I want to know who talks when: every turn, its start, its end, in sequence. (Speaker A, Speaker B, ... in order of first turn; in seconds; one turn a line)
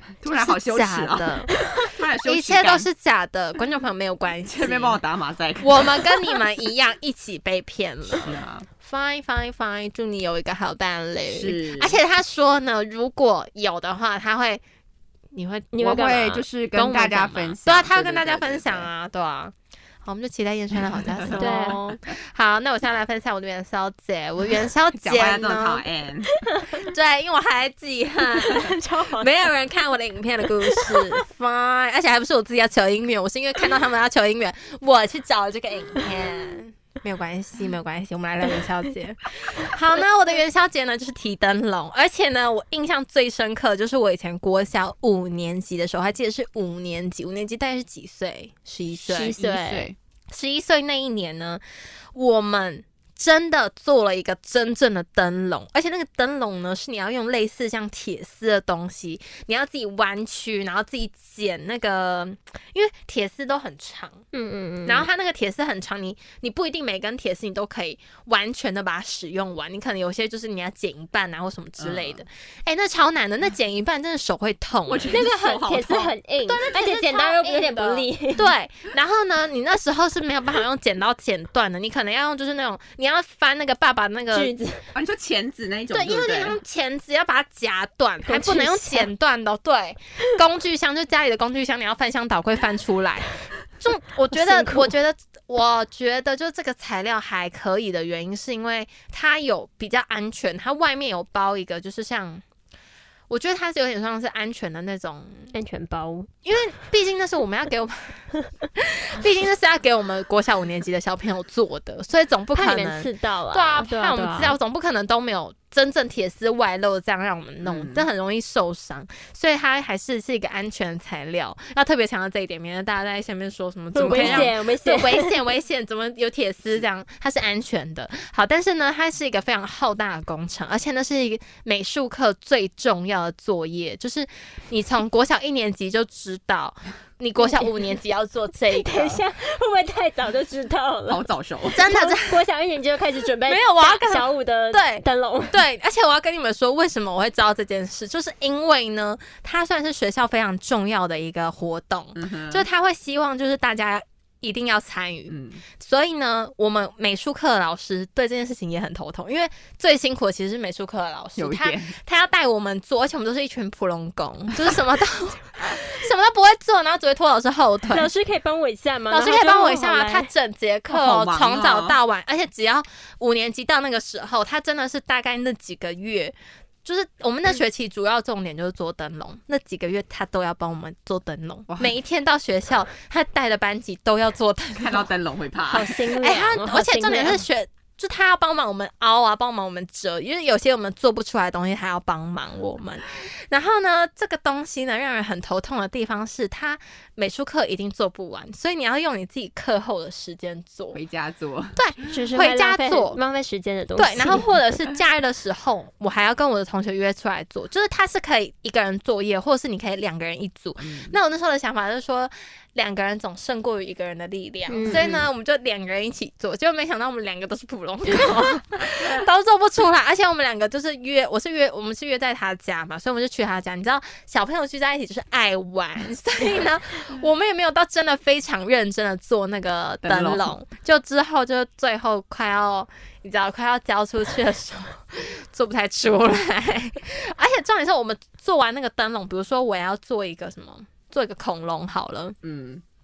Speaker A: 0.2-2.9
Speaker B: 0.3-1.5
Speaker B: 2.2-5.0
Speaker A: 4.5-6.4
Speaker B: 5.6-8.3
Speaker A: 8.1-8.7
Speaker B: 8.8-14.6
Speaker A: 11.3-12.0
Speaker B: 15.3-25.9
Speaker C: 15.7-16.3
Speaker A: 15.8-18.9
Speaker A: 21.1-21.7
Speaker C: 21.4-21.8
Speaker A: 24.9-26.3
Speaker C: 26.3-26.9
Speaker B: 26.8-49.4
Speaker C: 28.3-29.5
Speaker C: 30.7-31.2
Speaker A: 49.0-50.0
Speaker C: 49.1-49.9
Speaker B: 50.3-51.6
Speaker B: 52.1-64.2
Speaker C: 64.3-65.1
Speaker B: 64.9-75.2
Speaker A: 71.8-72.2
Speaker A: 74.9-76.1
Speaker C: 75.1-78.5
Speaker B: 76.5-84.5
Speaker C: 84.3-84.8
Speaker A: 84.9-86.6
Speaker B: 85.9-102.4
Speaker C: 88.3-89.1
Speaker C: 94.3-94.9
Speaker B: 103.3-105.5
Speaker C: 105.5-106.3
Speaker B: 106.5-108.2
Speaker B: 108.8-139.2
Speaker C: 112.5-114.6
Speaker A: 117.6-118.1
Speaker C: 124.0-125.4
Speaker A: 124.0-124.5
Speaker C: 137.4-137.7
Speaker C: 138.7-141.3
Speaker A: 141.1-141.9
Speaker B: 141.7-142.4
Speaker C: 141.8-145.6
Speaker B: 143.5-168.1
Speaker A: 152.2-152.7
Speaker A: 155.3-155.6
Speaker A: 161.4-161.9
Speaker C: 167.9-170.3
Speaker B: 169.1-176.3
Speaker A: 170.9-172.0
Speaker B: 176.8-185.1
Speaker A: 184.8-186.0
Speaker C: 185.7-187.4
Speaker B: 186.2-201.0
Speaker A: 200.9-201.8
Speaker B: 201.8-203.2
Speaker C: 202.1-204.5
Speaker B: 204.0-242.4
Speaker A: 210.8-211.2
Speaker C: 214.7-215.2
Speaker A: 214.9-215.2
Speaker A: 230.0-230.5
Speaker A: 242.4-242.8